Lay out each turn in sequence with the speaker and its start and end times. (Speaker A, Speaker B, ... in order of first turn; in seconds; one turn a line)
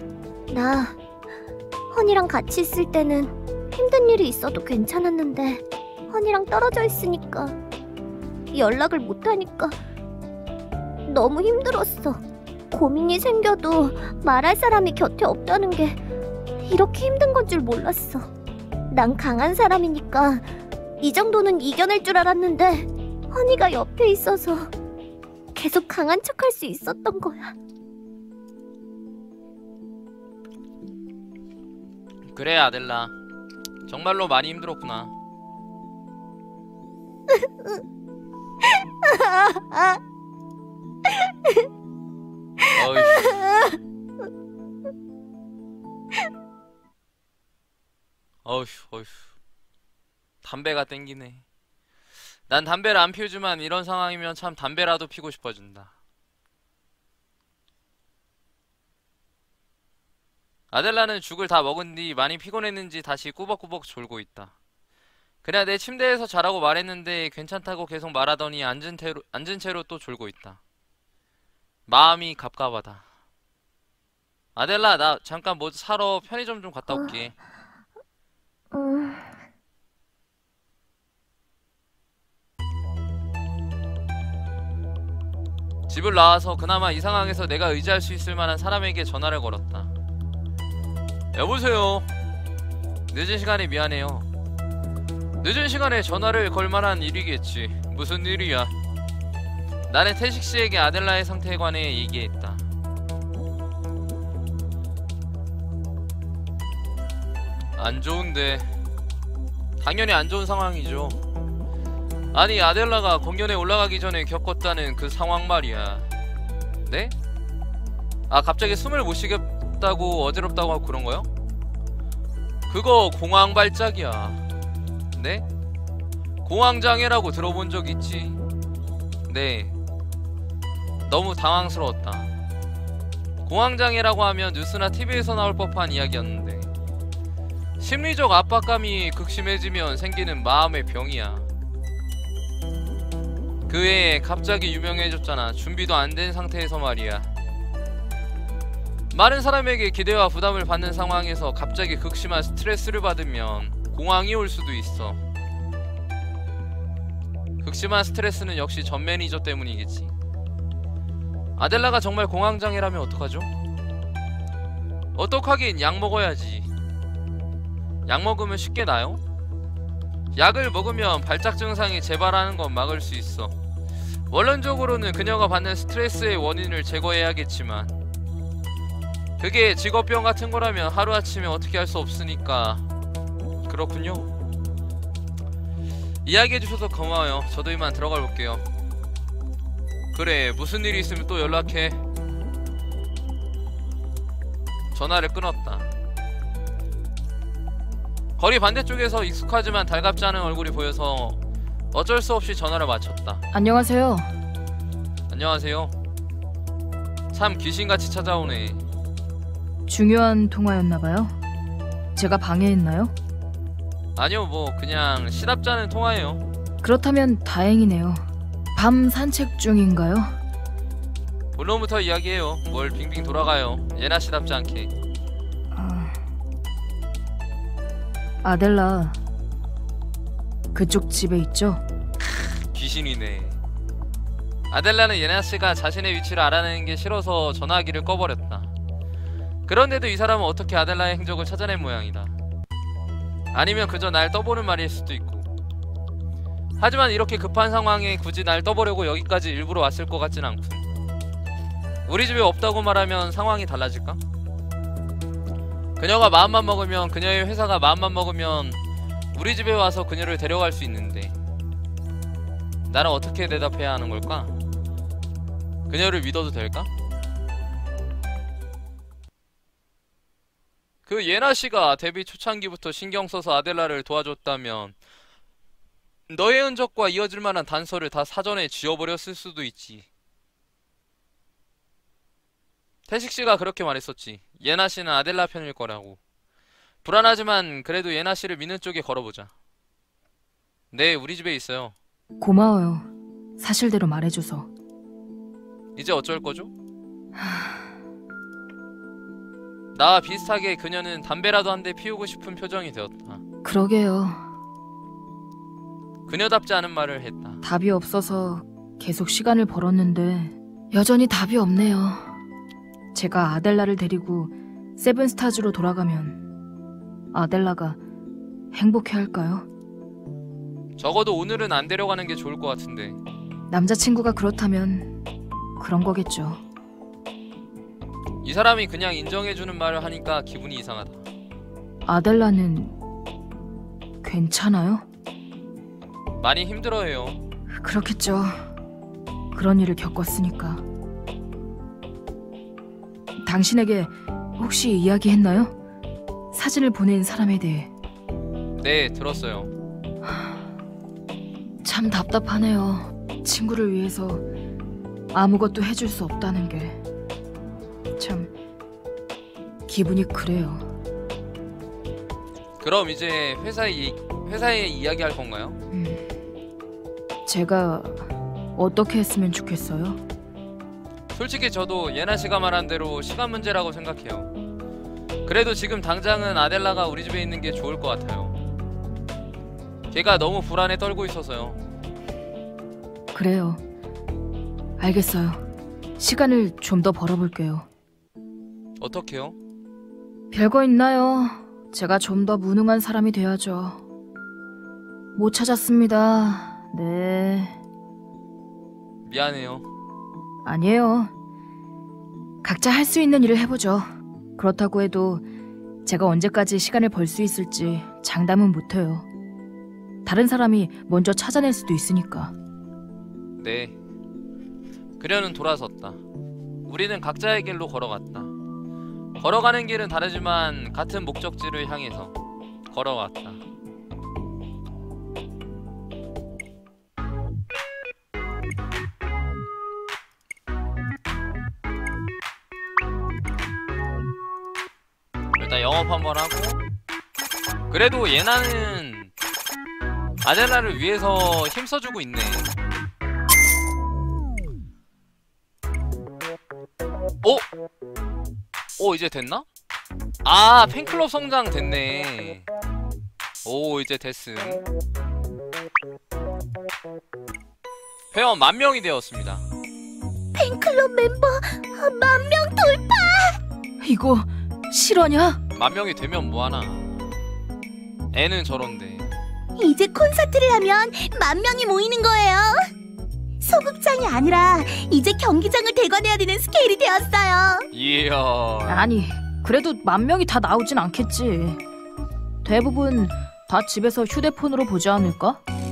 Speaker A: 0.5-0.9
Speaker A: 1.9-7.6
Speaker A: 8.5-9.8
Speaker A: 11.1-16.0
Speaker A: 16.6-18.3
Speaker A: 18.9-20.5
Speaker A: 21.0-24.7
Speaker A: 25.5-27.5
Speaker B: 32.3-33.1
Speaker B: 33.9-35.1
Speaker A: 37.3-37.8
Speaker A: 39.0-40.0
Speaker A: 41.1-41.7
Speaker B: 42.7-43.4
Speaker A: 42.9-43.8
Speaker B: 48.4-49.2
Speaker B: 50.4-51.4
Speaker B: 52.5-55.9
Speaker B: 60.7-64.5
Speaker B: 65.4-70.6
Speaker B: 71.9-73.0
Speaker B: 74.5-77.3
Speaker A: 78.7-79.4
Speaker B: 85.9-89.9
Speaker B: 91.3-92.1
Speaker B: 93.1-94.3
Speaker B: 95.4-98.7
Speaker B: 99.9-102.6
Speaker B: 107.8-108.7
Speaker B: 109.8-111.2
Speaker B: 112.3-116.0
Speaker B: 116.8-117.1
Speaker B: 118.3-121.3
Speaker B: 122.7-124.4
Speaker B: 125.1-125.4
Speaker B: 126.4-128.4
Speaker B: 129.3-129.7
Speaker B: 131.1-132.3
Speaker B: 133.4-136.7
Speaker B: 137.8-141.5
Speaker B: 143.7-147.3
Speaker B: 149.1-155.2
Speaker B: 157.6-160.1
Speaker B: 161.6-163.5
Speaker B: 165.1-166.7
Speaker B: 168.1-169.2
Speaker B: 170.3-173.5
Speaker B: 174.3-177.9
Speaker B: 179.4-182.8
Speaker B: 183.7-184.3
Speaker B: 186.2-188.6
Speaker B: 190.1-192.0
Speaker B: 194.9-195.9
Speaker B: 198.4-201.4
Speaker B: 201.9-203.4
Speaker C: 203.5-204.3
Speaker B: 205.3-205.9
Speaker B: 207.3-208.8
Speaker C: 209.9-211.3
Speaker C: 212.2-213.1
Speaker B: 214.2-216.4
Speaker C: 216.8-220.4
Speaker B: 221.5-224.9
Speaker C: 225.7-226.2
Speaker C: 228.4-229.2
Speaker C: 230.7-231.8
Speaker B: 232.3-233.6
Speaker B: 234.7-238.7
Speaker B: 239.7-242.3
Speaker B: 243.5-245.5
Speaker B: 246.8-250.8
Speaker B: 252.1-254.2
Speaker B: 256.0-258.8
Speaker B: 259.3-261.3
Speaker B: 262.9-264.5
Speaker B: 265.9-266.9
Speaker B: 271.1-274.9
Speaker B: 276.3-280.1
Speaker B: 283.1-286.2
Speaker B: 287.0-289.5
Speaker B: 290.9-291.9
Speaker C: 292.4-293.1
Speaker C: 293.6-294.7
Speaker B: 295.9-296.7
Speaker C: 297.3-297.9
Speaker B: 299.9-303.4
Speaker C: 303.6-304.5
Speaker B: 306.3-307.6
Speaker C: 307.6-312.4
Speaker C: 313.1-316.4
Speaker C: 317.3-318.0
Speaker C: 318.7-319.6
Speaker B: 321.0-323.2
Speaker C: 323.7-325.1
Speaker C: 325.8-326.6
Speaker B: 328.4-331.2
Speaker C: 332.1-332.9
Speaker C: 334.2-335.0
Speaker B: 336.4-337.4
Speaker C: 337.7-338.7
Speaker C: 339.5-340.8
Speaker C: 343.4-345.7
Speaker C: 346.5-347.9
Speaker B: 348.8-349.7
Speaker C: 350.2-350.5
Speaker C: 351.8-354.4
Speaker C: 355.3-357.0
Speaker C: 358.2-358.5
Speaker C: 359.9-360.9
Speaker B: 362.8-365.8
Speaker C: 365.9-366.2
Speaker C: 367.4-370.2
Speaker B: 371.3-374.5
Speaker B: 375.4-378.5
Speaker B: 380.1-381.8
Speaker C: 383.3-383.8
Speaker C: 385.0-385.6
Speaker C: 386.2-387.9
Speaker B: 389.0-389.6
Speaker C: 390.5-394.0
Speaker C: 395.4-397.8
Speaker B: 399.2-399.9
Speaker C: 400.6-401.3
Speaker C: 402.6-405.4
Speaker C: 406.0-409.2
Speaker C: 410.2-412.5
Speaker B: 413.6-413.9
Speaker B: 415.2-416.2
Speaker B: 416.9-418.5
Speaker B: 419.4-422.3
Speaker B: 422.9-423.6
Speaker B: 435.6-436.8
Speaker B: 437.9-439.3
Speaker B: 440.4-442.7
Speaker B: 449.0-449.6
Speaker B: 450.4-452.6
Speaker B: 453.6-454.8
Speaker B: 458.3-459.6
Speaker D: 460.5-463.6
Speaker C: 464.0-465.6
Speaker B: 465.8-467.3
Speaker B: 468.3-469.3
Speaker D: 469.8-472.9
Speaker D: 473.6-477.9
Speaker B: 477.9-479.1
Speaker C: 478.9-481.8
Speaker C: 482.6-485.6